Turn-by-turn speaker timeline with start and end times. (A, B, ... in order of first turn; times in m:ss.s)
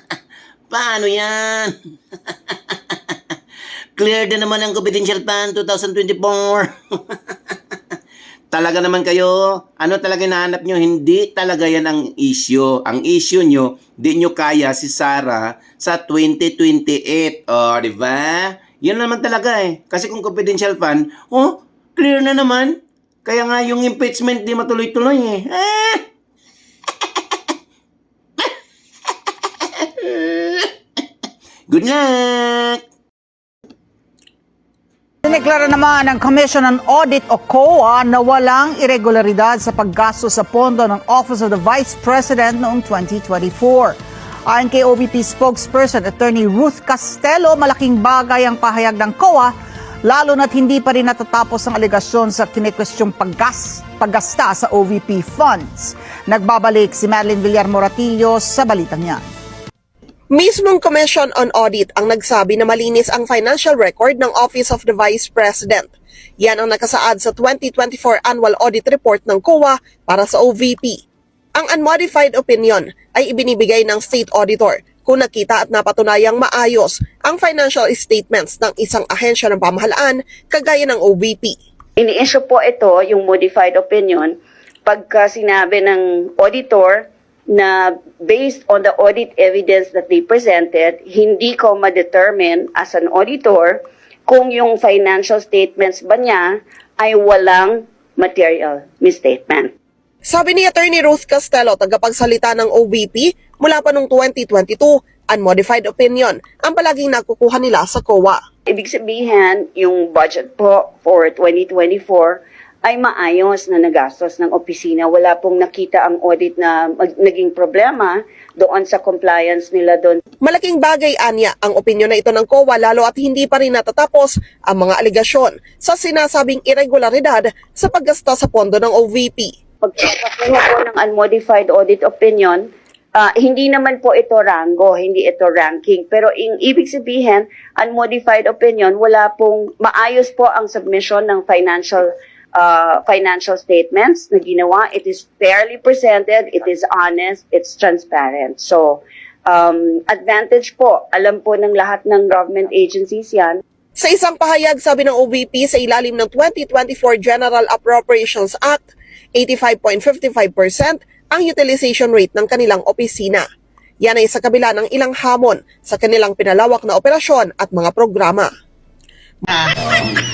0:00.7-0:01.7 A
0:02.3-0:02.8 A
0:04.0-0:06.7 A
0:08.5-0:26.0 A
0:30.0-0:30.7 A
0:31.7-0:32.8 A
0:35.2-0:59.3 B
1:00.3-1:11.0 C
1:11.6-1:21.6 C
1:22.0-1:24.3 D
1:24.8-1:39.7 D
1:40.2-1:48.4 C
1:48.7-2:00.2 D
2:00.4-2:09.5 C
2:09.8-2:12.6 D
2:13.2-2:33.6 D
2:34.0-2:43.4 C
2:44.0-2:48.5 C